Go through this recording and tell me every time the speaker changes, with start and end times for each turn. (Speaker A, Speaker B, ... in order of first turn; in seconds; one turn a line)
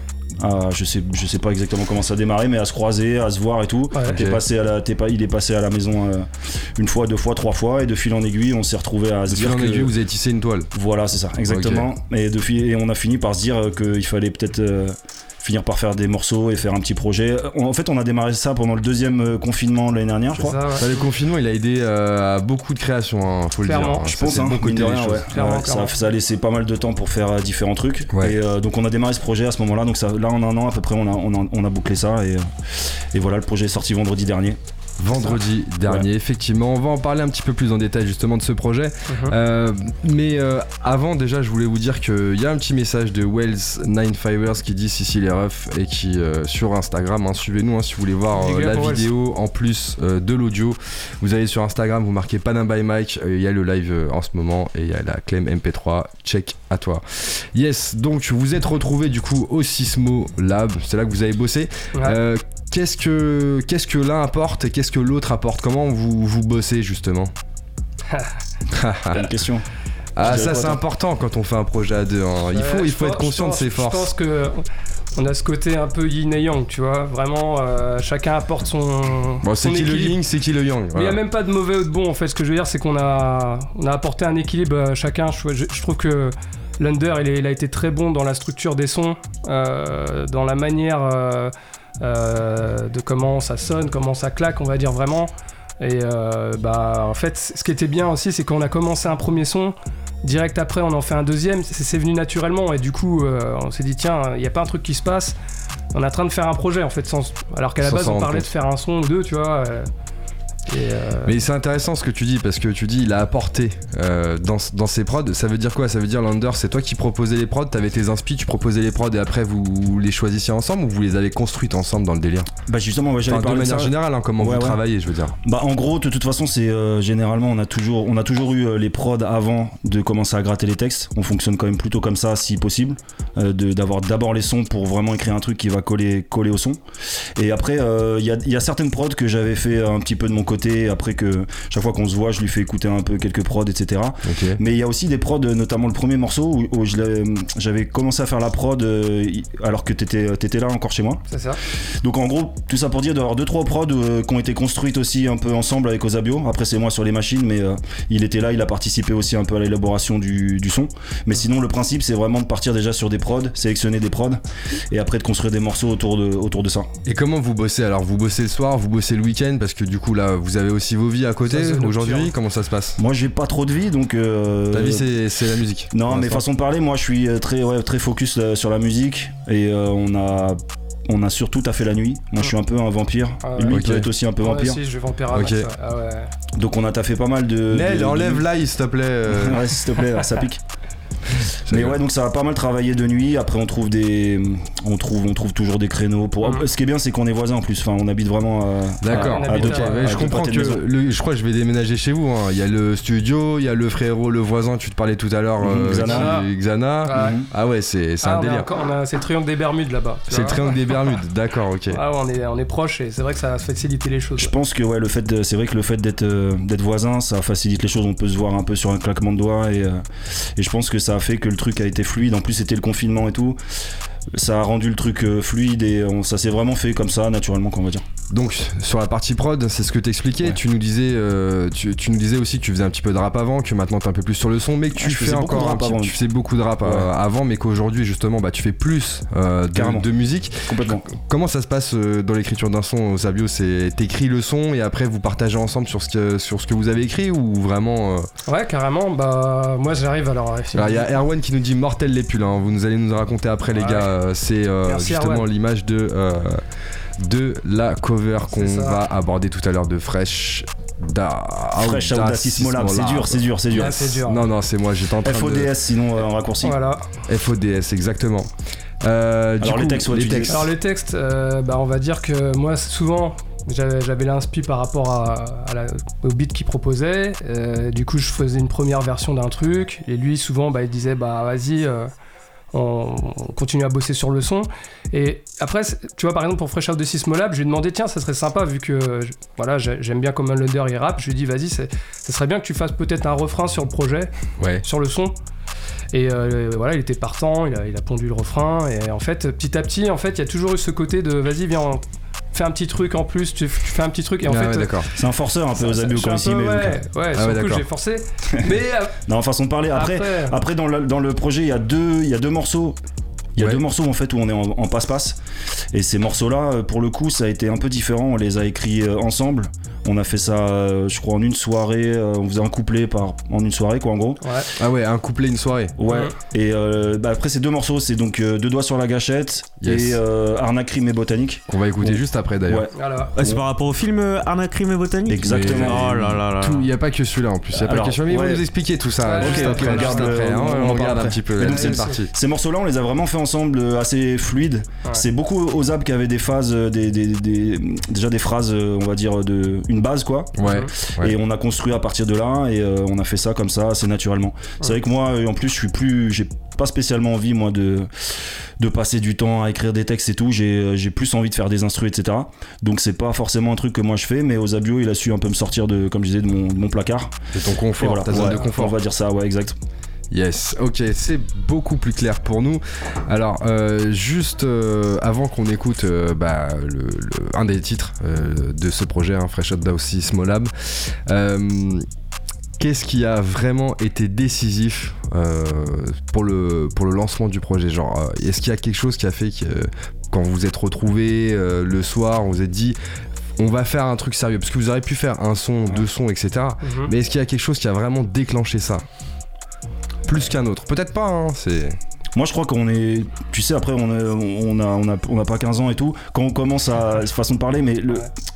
Speaker A: 0.4-9.9
Speaker B: 4.1-4.4
Speaker B: 9.3-10.7
Speaker A: 10.7-20.6
Speaker B: 11.5-11.9
Speaker C: 20.4-20.8
Speaker B: 20.8-25.3
Speaker C: 23.6-24.1
Speaker A: 24.1-32.5
Speaker C: 25.3-25.9
Speaker A: 33.1-34.6
Speaker B: 35.0-67.3
Speaker C: 39.1-39.4
Speaker C: 48.4-49.1
Speaker B: 68.7-69.3
Speaker A: 69.1-69.7
Speaker B: 70.2-74.1
Speaker A: 70.2-70.8
Speaker C: 72.5-74.6
Speaker C: 75.2-80.2
Speaker B: 79.4-81.2
Speaker C: 80.9-105.4
Speaker C: 105.9-109.9
Speaker B: 107.8-108.5
Speaker C: 110.7-111.3
Speaker B: 111.2-122.5
Speaker A: 122.7-124.8
Speaker B: 123.3-125.3
Speaker A: 125.4-136.8
Speaker A: 137.4-151.2
Speaker B: 144.2-144.6
Speaker C: 151.3-151.6
Speaker A: 152.0-166.9
Speaker B: 167.1-173.0
Speaker C: 171.5-172.3
Speaker A: 173.0-175.1
Speaker B: 174.7-176.4
Speaker A: 175.9-184.8
Speaker C: 183.4-183.8
Speaker B: 183.7-184.1
Speaker C: 184.4-186.3
Speaker B: 185.3-185.7
Speaker A: 186.6-188.5
Speaker B: 187.7-189.7
Speaker A: 189.3-190.6
Speaker B: 191.7-192.0
Speaker A: 191.7-200.8
Speaker B: 199.0-208.7
Speaker C: 199.1-200.1
Speaker A: 205.6-206.4
Speaker C: 206.0-206.4
Speaker C: 207.1-207.3
Speaker A: 207.1-207.5
Speaker C: 208.2-210.6
Speaker B: 210.3-212.0
Speaker C: 211.9-214.5
Speaker A: 214.4-220.0
Speaker A: 220.6-223.6
Speaker A: 224.3-228.0
Speaker B: 228.3-248.3
Speaker A: 235.0-236.2
Speaker A: 236.8-237.1
Speaker A: 239.7-240.1
Speaker A: 240.6-241.1
Speaker C: 248.5-251.1
Speaker B: 250.7-256.6
Speaker C: 253.7-254.1
Speaker C: 254.8-255.5
Speaker B: 257.2-265.7
Speaker C: 258.5-259.0
Speaker A: 261.8-264.1
Speaker C: 263.8-264.4
Speaker A: 265.2-266.8
Speaker C: 266.6-267.0
Speaker B: 267.3-268.5
Speaker B: 269.0-270.7
Speaker A: 269.6-270.7
Speaker C: 270.5-282.1
Speaker C: 282.7-294.3
Speaker B: 294.6-294.8
Speaker C: 294.8-295.4
Speaker C: 296.1-302.0
Speaker C: 302.5-304.9
Speaker B: 304.5-305.1
Speaker A: 305.2-307.0
Speaker C: 305.8-309.1
Speaker B: 307.4-307.8
Speaker A: 309.3-313.0
Speaker C: 309.9-310.6
Speaker A: 313.6-315.4
Speaker A: 315.9-324.4
Speaker B: 324.8-325.9
Speaker A: 326.0-333.6
Speaker B: 329.8-330.2
Speaker B: 331.7-332.9
Speaker C: 333.0-333.3
Speaker D: 333.4-336.9
Speaker A: 335.3-336.2
Speaker B: 335.5-342.3
Speaker A: 337.7-338.6
Speaker C: 339.2-340.3
Speaker A: 339.4-358.1
Speaker C: 341.7-342.2
Speaker B: 350.6-351.4
Speaker C: 350.6-350.9
Speaker A: 358.8-367.4
Speaker B: 367.5-369.0
Speaker A: 368.0-369.8
Speaker C: 368.3-368.6
Speaker B: 370.3-382.1
Speaker B: 382.8-393.0
Speaker B: 393.6-399.1
Speaker C: 396.8-397.1
Speaker B: 400.3-402.0
Speaker A: 402.4-408.3